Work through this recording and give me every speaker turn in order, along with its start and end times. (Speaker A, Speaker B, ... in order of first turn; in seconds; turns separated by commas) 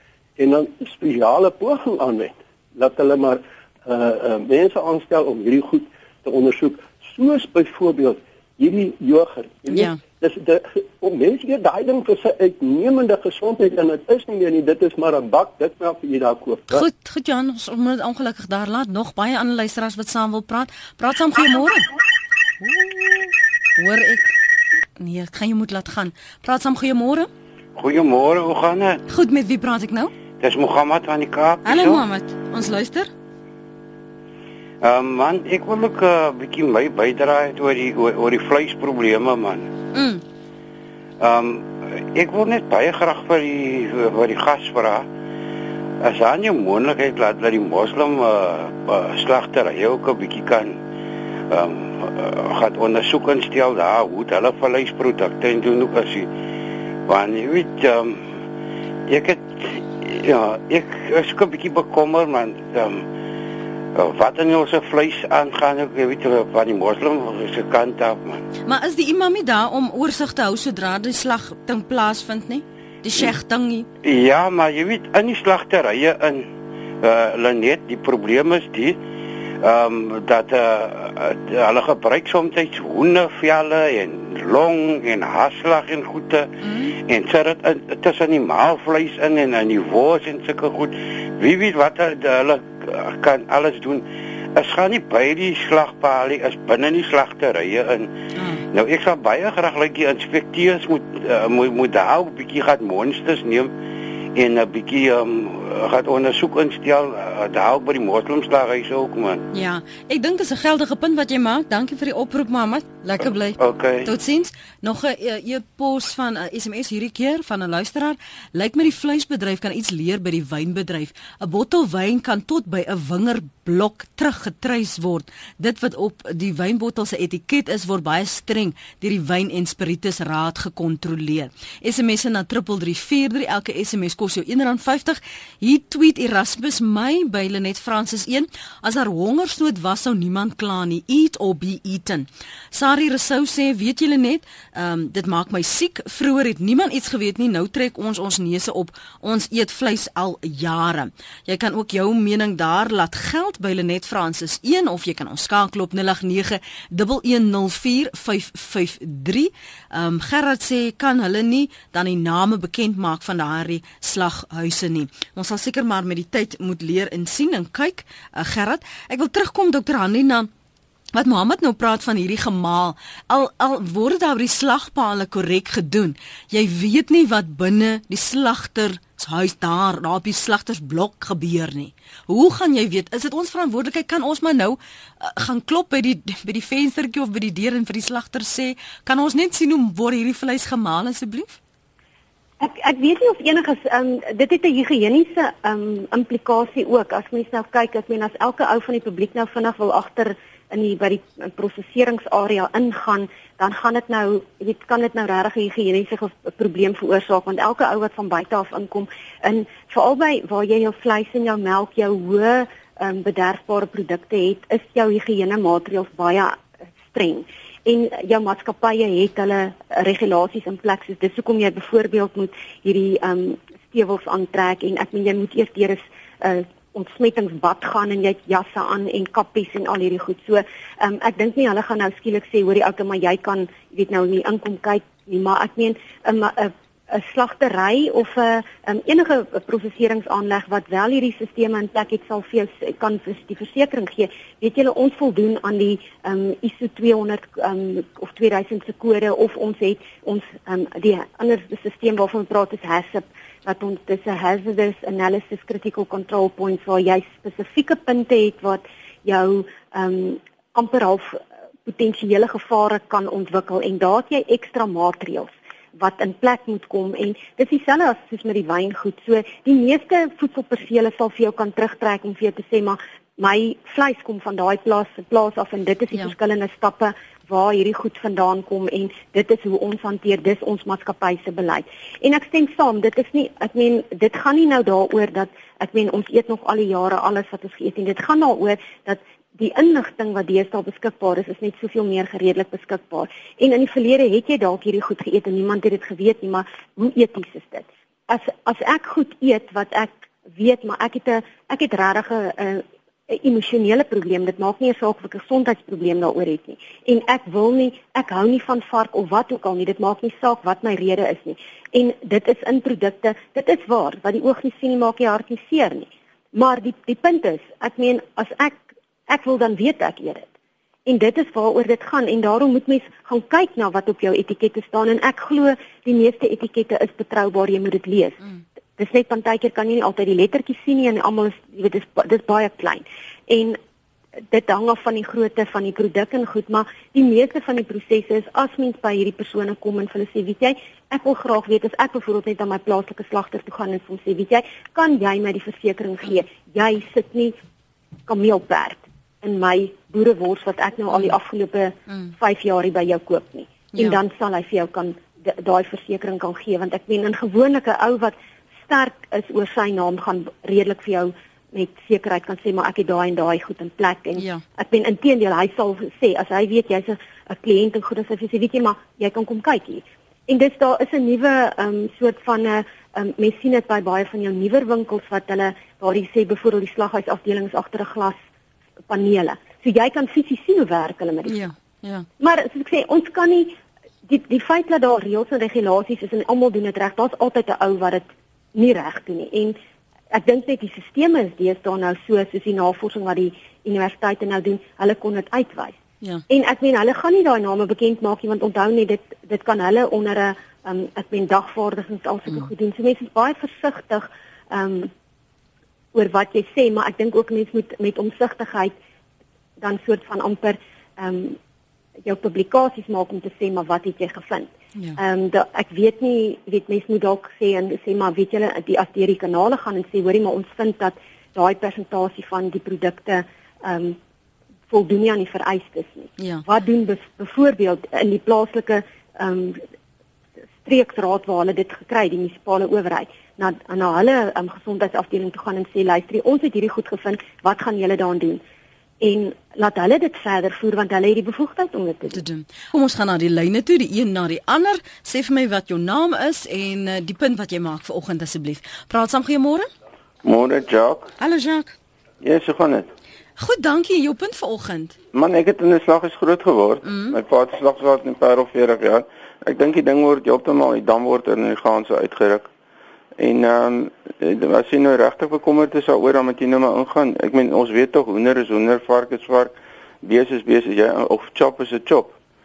Speaker A: 0.4-16.8, Speaker B: 9.7-10.0, Speaker B: 16.7-21.9, Speaker B: 22.6-24.3, Speaker B: 25.0-27.3, Speaker C: 27.8-29.0, Speaker B: 29.1-30.1, Speaker C: 30.4-32.0, Speaker B: 31.6-33.1, Speaker C: 34.8-39.7, Speaker B: 39.9-40.2, Speaker C: 41.2-45.0, Speaker C: 46.0-50.8, Speaker C: 51.5-56.3, Speaker C: 57.1-58.3, Speaker C: 59.1-63.0, Speaker C: 63.9-68.4, Speaker B: 68.7-73.9, Speaker C: 74.0-76.5, Speaker C: 77.0-79.0, Speaker C: 79.6-98.1, Speaker B: 86.6-86.9, Speaker B: 98.3-98.6, Speaker C: 98.7-103.7, Speaker C: 104.3-109.5, Speaker B: 109.5-170.5, Speaker C: 113.6-114.1, Speaker B: 171.1-191.6, Speaker D: 192.6-216.6, Speaker D: 217.1-320.5, Speaker D: 321.1-328.4, Speaker D: 329.0-333.8, Speaker D: 334.5-347.6, Speaker D: 348.3-378.4, Speaker B: 353.9-354.2, Speaker B: 364.4-364.6, Speaker D: 379.1-381.6, Speaker B: 381.4-382.3, Speaker D: 382.4-389.8, Speaker D: 390.3-395.9, Speaker D: 396.5-405.1, Speaker D: 406.1-408.9, Speaker D: 409.8-411.6, Speaker D: 412.2-424.2, Speaker D: 424.9-429.8, Speaker B: 426.4-426.6, Speaker D: 430.8-438.6, Speaker D: 439.2-442.4, Speaker B: 442.3-449.9, Speaker E: 450.4-451.3, Speaker B: 451.4-451.9, Speaker E: 452.4-453.1, Speaker B: 453.6-455.1, Speaker E: 455.3-462.7, Speaker B: 457.0-457.4, Speaker E: 463.4-472.3